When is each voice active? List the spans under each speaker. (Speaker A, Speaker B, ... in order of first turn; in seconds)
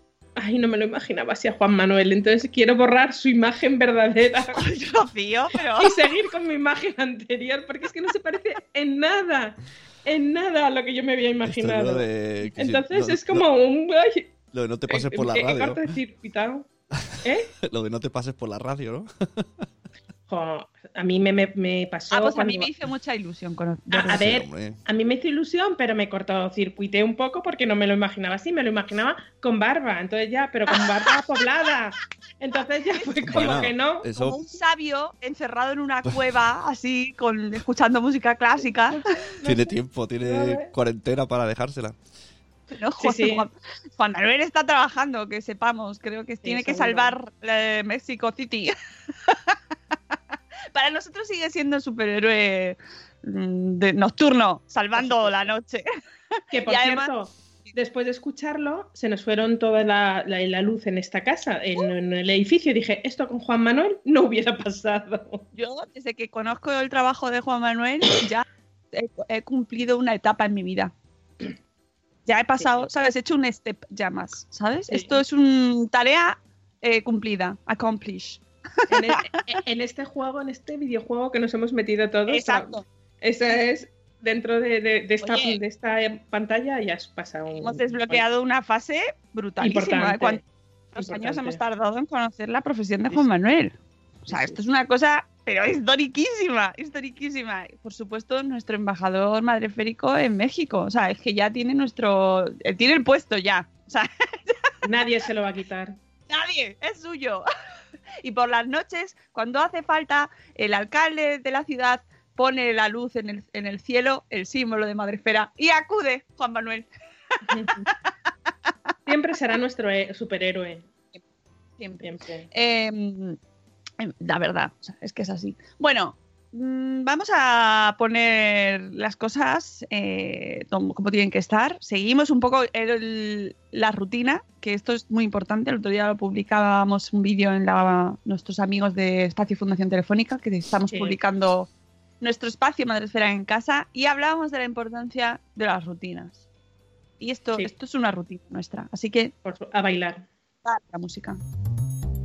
Speaker A: 0.4-4.6, 5.8-14.3, 14.9-16.7, 17.2-17.5, 20.3-22.7, 23.9-34.2, 39.1-40.7, 43.0-43.5, 46.4-47.1, 55.0-55.4, 56.5-65.5, 74.9-75.2, 78.9-88.2, 89.6-90.4, 91.0-91.6, 94.3-94.6, 104.8-106.0, 117.5-117.9, 119.1-120.9, 122.0-122.5, 140.9-141.2, 149.4-150.2
Speaker B: 4.6-6.0, 22.1-24.2, 30.7-31.1, 34.2-39.1, 42.8-48.7, 49.3-49.6, 50.7-55.8, 56.7-57.1, 65.5-70.9, 72.3-79.2, 82.3-82.8, 85.2-85.6, 87.5-90.4, 90.9-93.7, 94.2-104.7, 106.3-107.5, 108.2-117.9, 121.8-123.4, 124.0-141.7, 142.2-146.4, 147.2-149.3, 150.7-151.4
Speaker C: 11.4-13.5, 14.5-15.9, 17.0-19.6, 24.1-24.8, 33.3-34.4, 39.4-42.0